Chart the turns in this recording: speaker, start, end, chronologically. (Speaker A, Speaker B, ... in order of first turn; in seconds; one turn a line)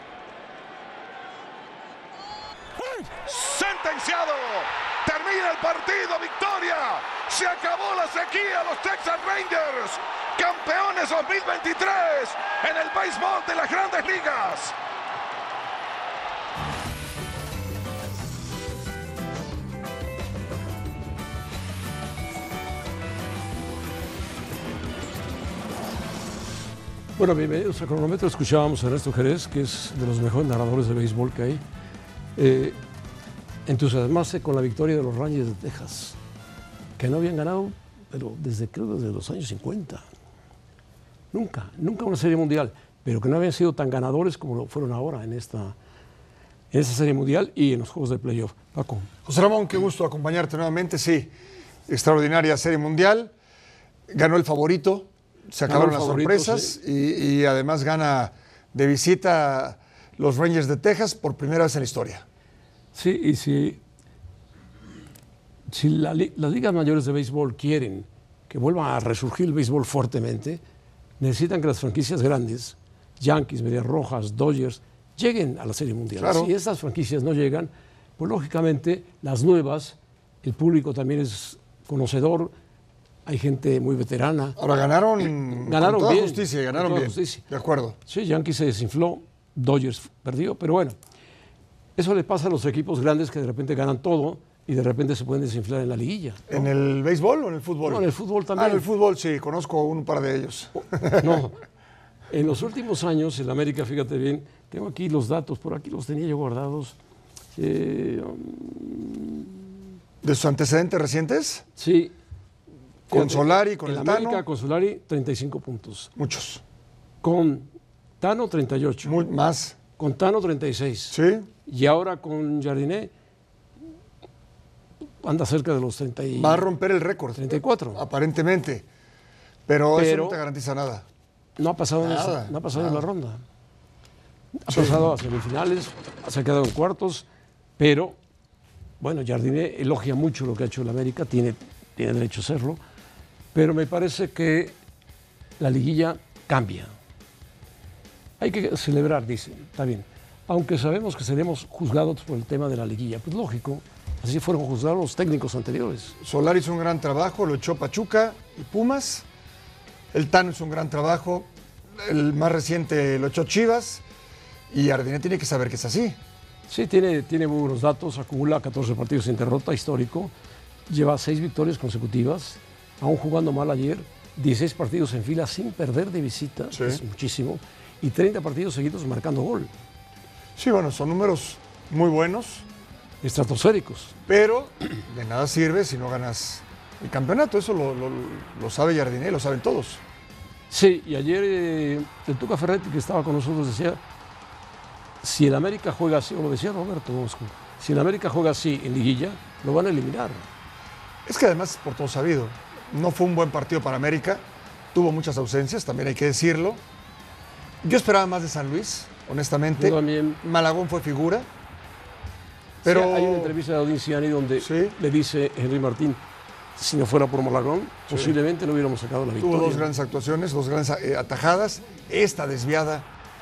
Speaker A: 3.2-14.8
Speaker B: 27.2-31.6
Speaker B: 32.4-32.8
Speaker B: 33.7-36.2
Speaker B: 37.0-40.0
Speaker B: 41.3-45.8
Speaker B: 46.7-49.1
Speaker C: 49.2-51.3
Speaker C: 51.9-53.3
Speaker C: 54.1-62.2
Speaker B: 55.7-56.8
Speaker B: 62.9-63.8
Speaker B: 65.7-70.6
Speaker B: 71.2-82.5
Speaker C: 76.2-76.5
Speaker B: 83.3-84.6
Speaker C: 84.6-88.0
Speaker B: 85.5-87.4
Speaker B: 88.1-91.0
Speaker B: 92.0-96.7
Speaker C: 96.5-101.5
Speaker B: 97.8-98.9
Speaker B: 101.2-101.6
Speaker B: 102.3-107.0
Speaker B: 107.6-109.7
Speaker C: 110.2-111.7
Speaker B: 111.8-112.1
Speaker C: 113.1-114.4
Speaker B: 113.1-116.1
Speaker C: 116.2-116.6
Speaker B: 117.2-117.7
Speaker B: 118.2-119.2
Speaker C: 119.0-119.8
Speaker B: 120.0-123.1
Speaker C: 121.1-121.5
Speaker B: 125.2-126.7
Speaker C: 126.3-128.9
Speaker B: 127.4-128.0
Speaker C: 129.7-131.1
Speaker B: 129.9-130.4
Speaker B: 131.6-133.4
Speaker C: 132.0-133.1
Speaker B: 134.6-137.3
Speaker C: 134.7-135.0
Speaker B: 137.8-138.2
Speaker B: 139.0-142.8
Speaker B: 143.5-144.8
Speaker B: 145.6-146.9
Speaker B: 148.4-156.2
Speaker C: 156.2-159.2
Speaker C: 160.1-164.0
Speaker C: 164.7-166.2
Speaker B: 166.7-170.3
Speaker B: 170.9-179.7
Speaker C: 176.7-177.0
Speaker C: 180.6-182.7
Speaker B: 183.2-184.2
Speaker C: 184.3-190.0
Speaker B: 190.7-194.0
Speaker B: 195.2-200.5
Speaker C: 201.2-206.8
Speaker C: 207.8-211.5
Speaker B: 209.8-210.4
Speaker C: 212.8-213.6
Speaker B: 212.8-216.2
Speaker C: 214.6-215.0
Speaker B: 216.8-219.9
Speaker C: 219.4-223.1